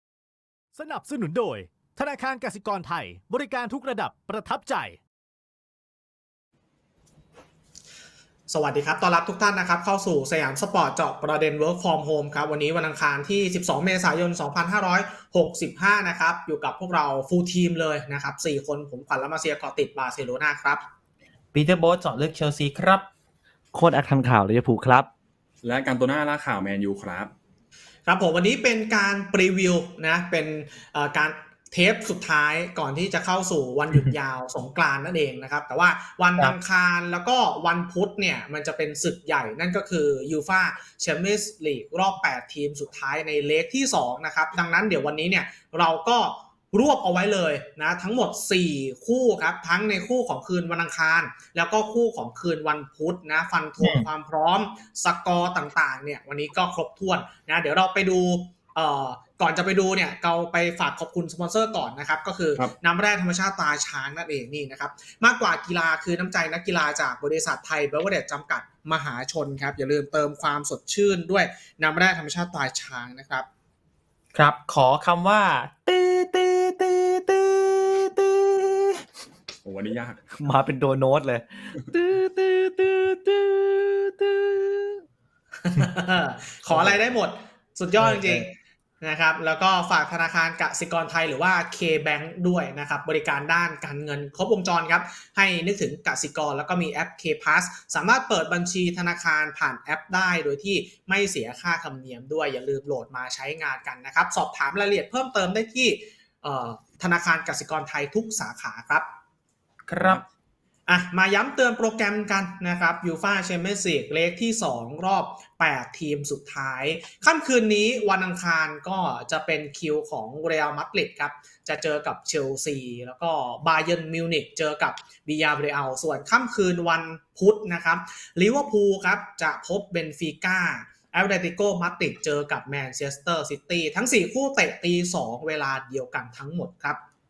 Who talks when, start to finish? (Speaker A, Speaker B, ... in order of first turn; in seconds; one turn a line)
Speaker A: 0.7-5.0
Speaker B: 8.5-20.8
Speaker C: 21.5-23.1
Speaker D: 23.7-25.1
Speaker E: 25.6-27.3
Speaker B: 28.1-73.5
Speaker C: 53.8-54.1
Speaker C: 74.3-79.0
Speaker E: 79.6-80.2
Speaker D: 80.3-85.0
Speaker B: 85.7-109.1
Speaker D: 86.7-87.1
Speaker D: 88.0-88.5
Speaker C: 109.9-110.2
Speaker B: 110.9-137.0